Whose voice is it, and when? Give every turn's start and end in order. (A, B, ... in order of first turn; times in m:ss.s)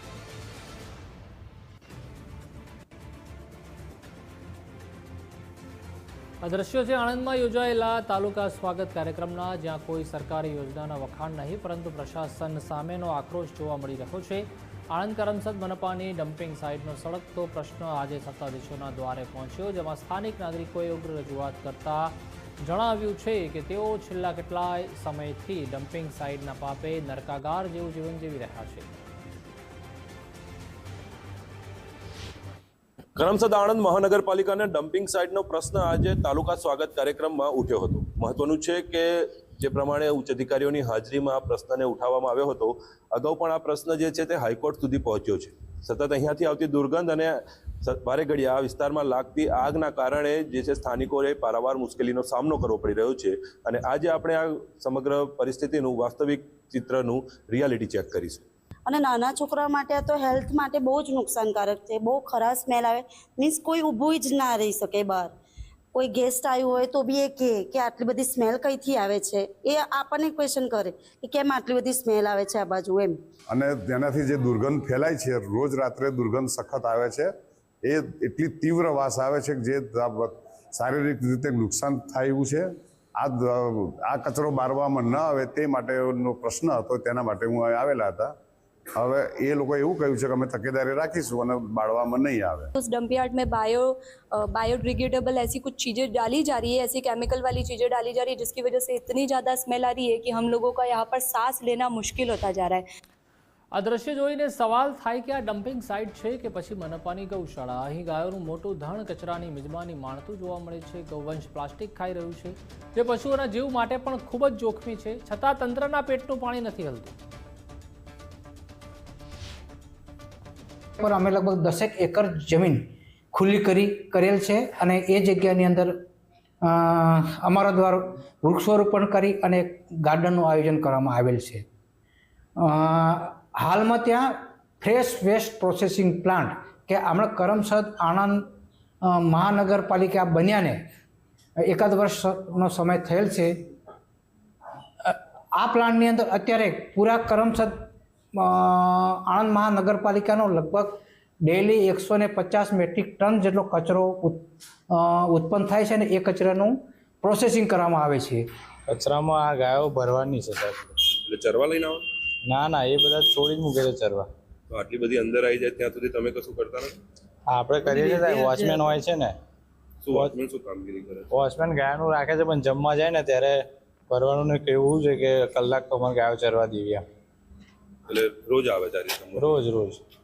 0:06.4-0:28.9 A
0:33.2-0:58.4 B
0:58.9-1:05.3 C
1:05.9-1:13.2 C
1:13.5-1:17.3 D
1:17.8-1:28.3 D
1:29.0-1:32.7 D
1:32.7-1:42.8 E
1:43.7-1:57.1 A
2:01.0-2:02.8 F
2:03.3-2:05.9 F
2:06.6-2:11.6 F
2:12.6-2:18.4 F
2:19.0-2:20.8 F
2:21.7-2:23.5 F
2:25.0-2:27.7 F
2:28.4-2:34.4 F
2:34.9-2:38.4 F
2:38.9-2:40.9 G
2:41.3-2:42.0 B
2:42.4-2:44.3 G
2:44.7-2:46.9 B
2:47.5-2:49.3 G
2:50.0-2:51.3 B
2:51.3-2:57.0 G
2:58.1-2:59.6 B
2:59.4-3:00.0 G